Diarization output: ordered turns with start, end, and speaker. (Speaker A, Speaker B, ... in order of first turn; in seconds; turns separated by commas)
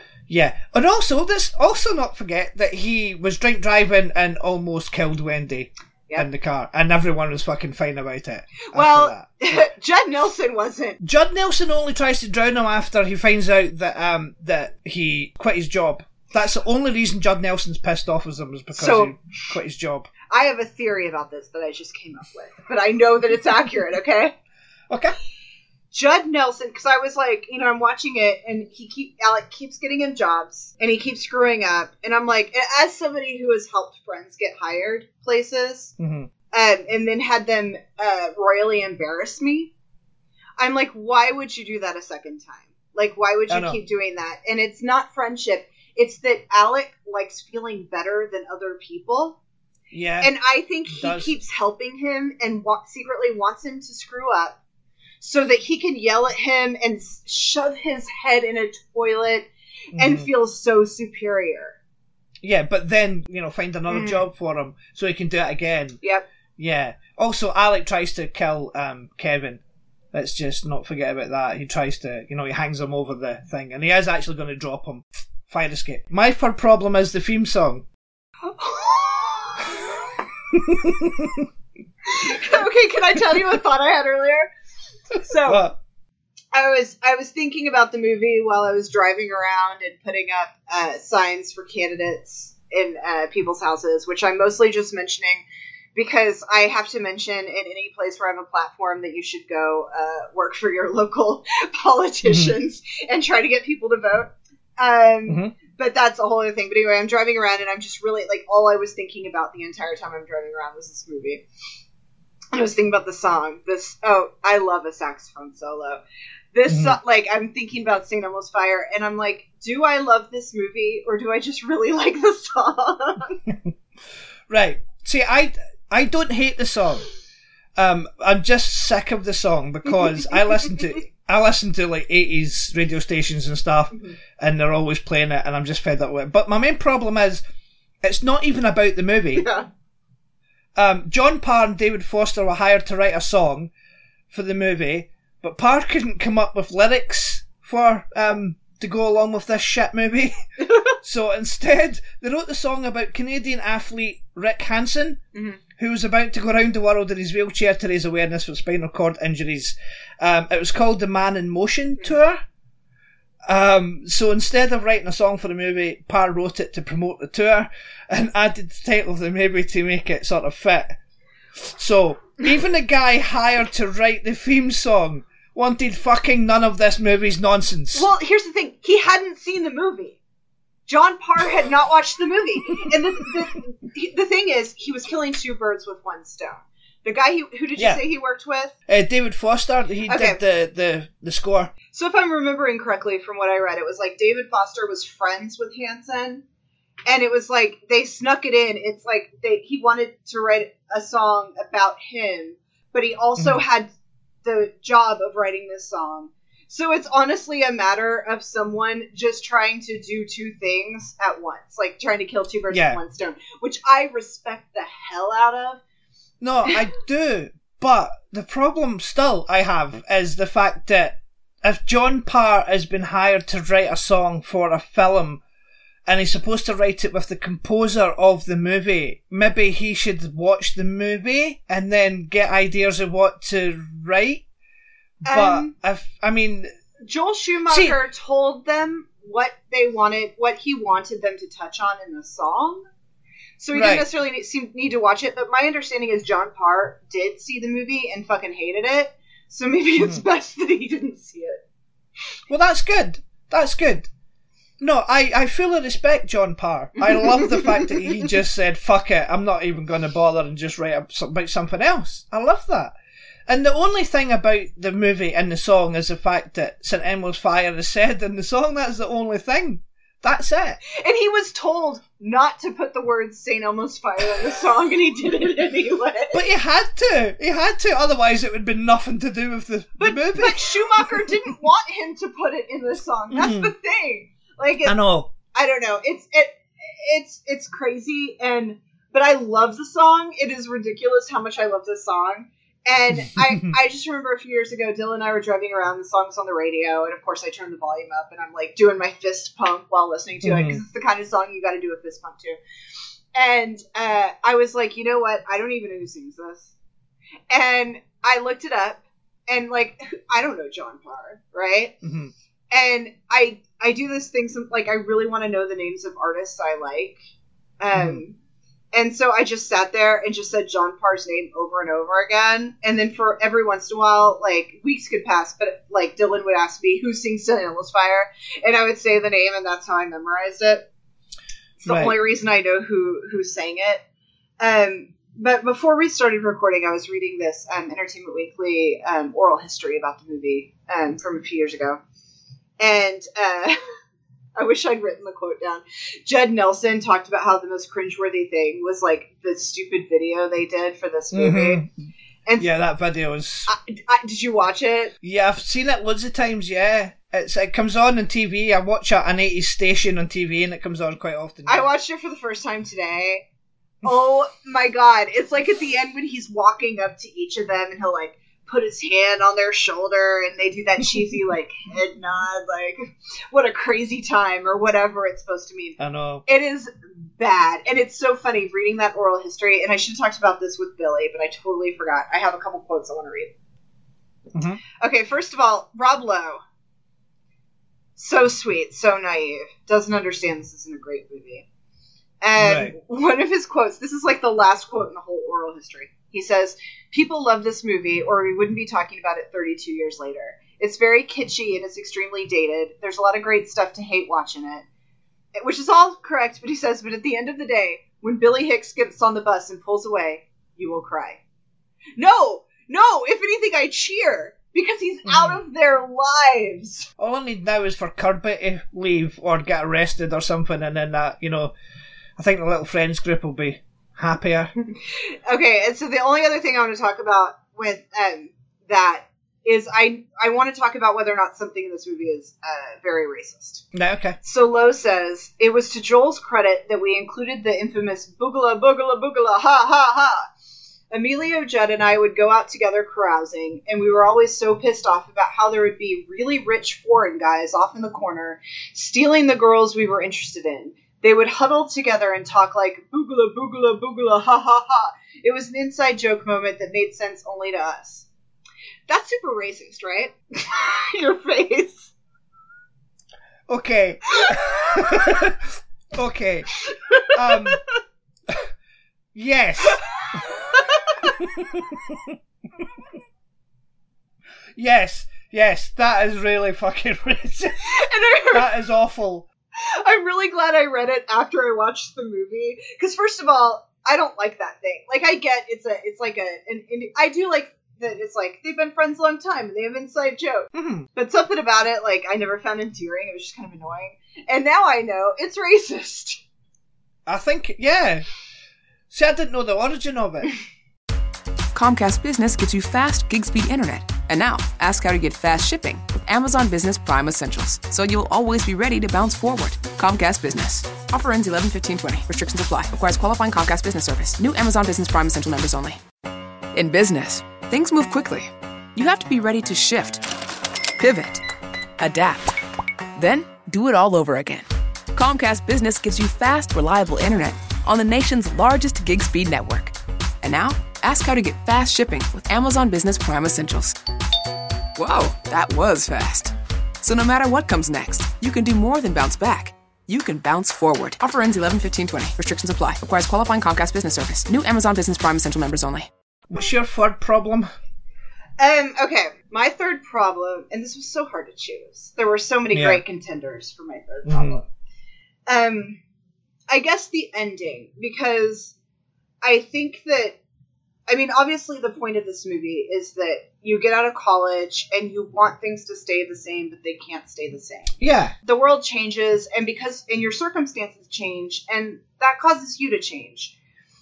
Speaker A: 0.3-9.6, Speaker B: 8.6-11.0, Speaker A: 11.0-20.1, Speaker B: 18.8-19.2, Speaker B: 20.3-24.3, Speaker A: 24.9-25.2, Speaker B: 25.9-35.9, Speaker A: 36.0-36.3, Speaker B: 36.5-39.7, Speaker B: 40.6-49.4, Speaker A: 43.5-43.8, Speaker A: 49.9-50.3, Speaker B: 50.2-54.6, Speaker A: 50.9-51.3, Speaker B: 55.2-61.8, Speaker A: 60.0-60.3, Speaker A: 62.4-66.0, Speaker B: 63.9-64.2, Speaker A: 66.6-69.6, Speaker A: 70.1-77.9, Speaker B: 78.5-80.0, Speaker A: 80.5-81.5, Speaker B: 82.1-84.5, Speaker B: 85.2-85.7, Speaker A: 85.4-85.8, Speaker B: 86.5-95.4, Speaker B: 96.0-111.4, Speaker A: 102.2-102.5, Speaker A: 105.3-105.5, Speaker B: 112.5-116.0, Speaker B: 116.5-123.4, Speaker A: 116.7-117.0, Speaker A: 124.5-127.0, Speaker A: 127.8-137.4, Speaker B: 133.9-134.2, Speaker A: 138.0-139.5, Speaker B: 139.4-139.7, Speaker A: 140.8-143.7, Speaker A: 144.3-150.3, Speaker B: 150.7-150.9, Speaker A: 151.0-155.2, Speaker B: 155.3-155.6, Speaker A: 155.8-162.4, Speaker A: 163.5-171.0, Speaker A: 171.6-178.1, Speaker B: 177.9-180.2, Speaker B: 180.9-188.7, Speaker A: 188.9-191.7, Speaker B: 190.1-190.4, Speaker B: 191.9-196.4, Speaker B: 197.1-203.9, Speaker A: 203.4-203.6, Speaker B: 204.4-215.8, Speaker A: 212.7-213.0, Speaker A: 216.4-225.4, Speaker A: 226.1-234.4, Speaker A: 235.2-236.7, Speaker B: 235.3-235.7, Speaker B: 237.0-242.8, Speaker A: 237.7-238.0, Speaker B: 243.6-251.6, Speaker A: 243.7-244.1, Speaker A: 250.0-250.2, Speaker A: 252.5-254.1, Speaker A: 254.8-262.9, Speaker A: 263.5-270.8, Speaker B: 270.9-276.4, Speaker A: 276.3-281.3, Speaker B: 280.0-285.0, Speaker A: 283.3-283.7, Speaker A: 284.8-285.3, Speaker B: 285.5-302.6, Speaker A: 293.2-293.8, Speaker A: 300.4-300.8, Speaker B: 303.3-306.7, Speaker B: 307.5-311.9, Speaker A: 312.0-312.3, Speaker B: 312.7-317.2, Speaker B: 317.8-318.4, Speaker A: 317.9-318.2, Speaker B: 318.9-330.9, Speaker B: 331.8-334.0, Speaker A: 331.9-332.2, Speaker B: 334.6-342.0, Speaker B: 342.8-343.8, Speaker B: 344.6-351.9, Speaker A: 351.3-351.9, Speaker A: 352.6-353.7, Speaker B: 353.7-355.1, Speaker A: 355.2-361.9, Speaker B: 361.7-363.5, Speaker B: 364.0-383.5, Speaker A: 376.0-376.4, Speaker A: 384.5-384.8, Speaker B: 385.0-386.6, Speaker B: 388.2-391.6, Speaker B: 392.4-404.9, Speaker A: 392.6-392.9, Speaker B: 405.6-411.4, Speaker B: 412.2-417.1, Speaker A: 415.3-415.6, Speaker A: 417.2-421.7, Speaker A: 422.4-424.7, Speaker B: 425.5-433.9, Speaker A: 433.9-434.4, Speaker B: 434.4-440.5, Speaker B: 441.1-458.3, Speaker B: 459.1-462.1, Speaker A: 463.7-467.8, Speaker B: 466.9-467.6, Speaker A: 469.3-470.0, Speaker B: 470.3-471.2, Speaker A: 471.2-472.4, Speaker A: 474.8-478.0, Speaker B: 477.9-478.7, Speaker A: 478.5-479.5, Speaker B: 479.8-496.4, Speaker A: 490.7-491.1, Speaker A: 497.3-498.3, Speaker A: 499.1-500.5, Speaker C: 501.7-516.0, Speaker C: 516.7-520.2, Speaker C: 521.0-521.4, Speaker C: 522.0-522.5, Speaker C: 523.2-534.0, Speaker C: 535.0-546.1, Speaker A: 546.5-547.7, Speaker B: 548.6-554.6, Speaker A: 552.7-553.0, Speaker A: 554.3-554.6, Speaker B: 555.5-556.0, Speaker B: 556.7-558.7, Speaker B: 559.4-560.4, Speaker B: 561.1-573.5, Speaker A: 568.0-568.3